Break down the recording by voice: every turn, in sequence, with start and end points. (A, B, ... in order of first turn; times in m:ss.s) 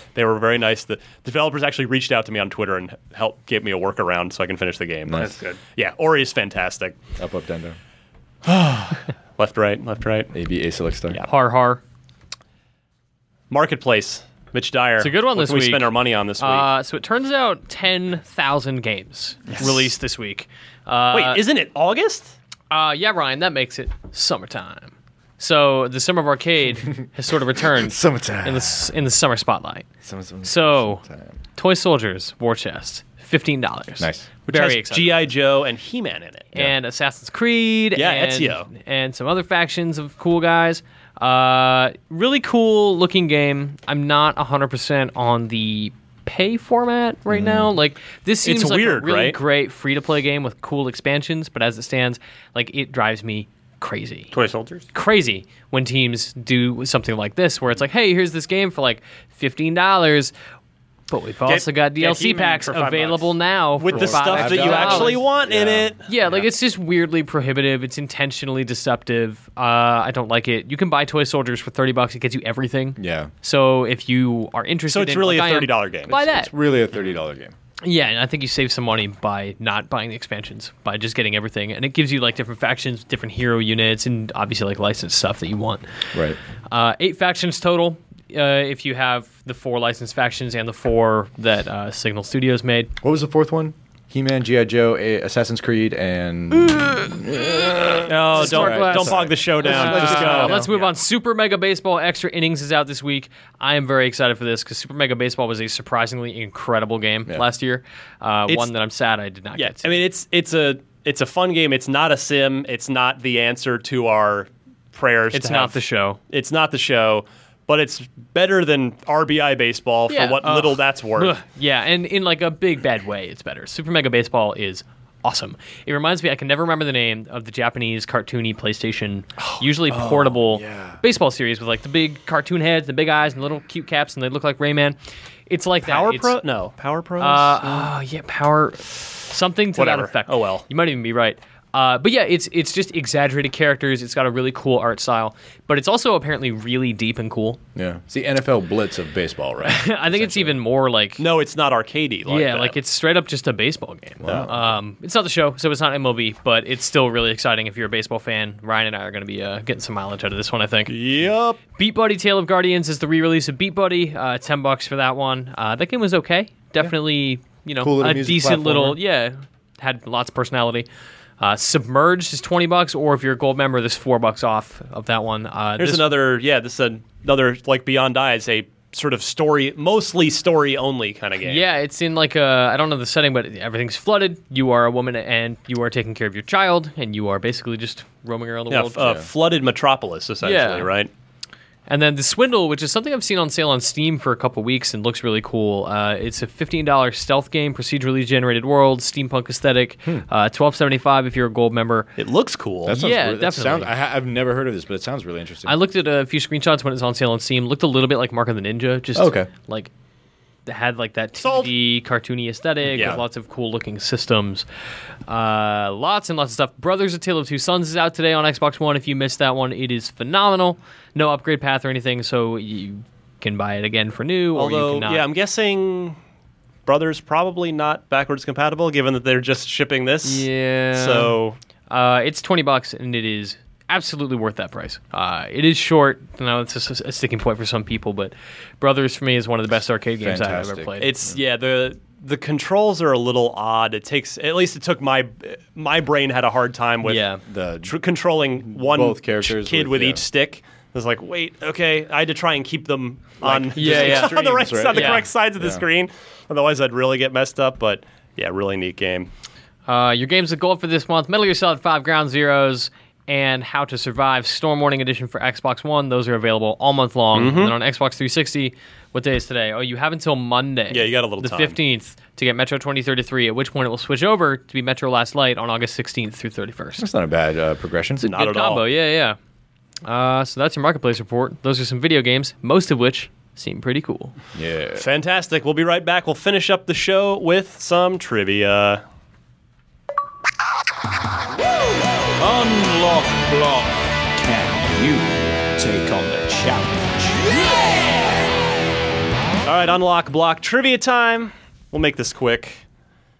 0:00.1-0:07.0 A
0:05.0-0:05.3 B
0:05.1-0:05.6 C
0:07.2-0:07.8 B
0:08.4-0:10.3 A
0:10.3-0:11.2 B
0:11.3-0:11.8 D
0:13.5-0:16.7 A
0:15.0-0:21.4 D
0:21.1-0:22.3 A
0:22.7-0:29.9 D
0:27.7-0:28.9 B
0:30.0-0:31.4 B
0:30.4-0:31.0 D
0:31.6-0:35.3 D
0:34.0-0:34.3 B
0:34.5-0:36.5 A
0:36.5-0:54.3 D
0:38.0-0:38.7 A
0:47.3-0:47.7 B
0:48.4-0:49.4 A
0:54.3-0:54.9 C
0:54.9-1:00.3 D
1:01.1-1:05.3 D
1:01.4-1:03.4 C
1:03.8-1:06.0 A
1:03.9-1:06.0 B
1:06.0-1:16.5 D
1:13.0-1:13.3 B
1:14.9-1:16.2 A
1:16.1-1:17.5 B
1:17.8-1:25.8 D
1:26.1-1:26.4 B
1:26.7-1:32.9 D
1:33.0-1:40.7 B
1:38.1-1:40.9 A
1:38.3-1:50.0 D
1:49.6-2:01.4 A
1:55.3-1:56.2 D
2:00.1-2:15.0 D
2:09.9-2:11.0 B
2:15.5-2:16.4 D
2:15.8-2:17.9 A
2:17.2-2:27.6 D
2:19.8-2:20.7 A
2:27.8-2:30.6 B
2:29.6-2:31.2 D
2:31.2-2:32.8 A
2:32.3-2:41.0 D
2:34.2-2:34.6 B
2:40.9-2:41.6 A
2:41.7-2:50.9 D
2:47.8-2:49.0 B
2:51.4-2:56.1 D
2:55.8-3:01.6 A
3:01.4-3:09.2 D
3:08.7-3:11.1 A
3:09.0-3:09.3 B
3:10.4-3:10.9 D
3:11.9-3:22.1 D
3:22.2-3:23.0 A
3:22.8-3:25.8 B
3:22.9-3:23.9 D
3:25.6-3:29.9 D
3:29.1-3:29.5 B
3:30.7-3:34.7 D
3:31.4-3:31.7 A
3:32.9-3:33.2 A
3:33.0-3:33.2 B
3:35.3-3:45.2 D
3:44.6-3:46.2 A
3:46.9-3:51.6 A
3:50.2-3:51.4 D
3:51.9-4:01.1 D
4:00.2-4:01.4 B
4:01.0-4:07.2 A
4:07.0-4:07.4 D
4:07.4-4:08.0 B
4:07.8-4:19.3 A
4:08.7-4:10.2 B
4:13.4-4:15.8 B
4:13.7-4:15.3 D
4:19.9-4:37.0 D
4:27.3-4:27.7 A
4:30.9-4:31.8 A
4:37.0-4:38.3 B
4:38.2-4:39.4 D
4:38.2-4:38.8 A
4:40.0-4:44.3 D
4:44.6-4:45.0 B
4:45.0-4:49.0 A
4:52.4-4:57.4 E
4:59.6-5:02.8 A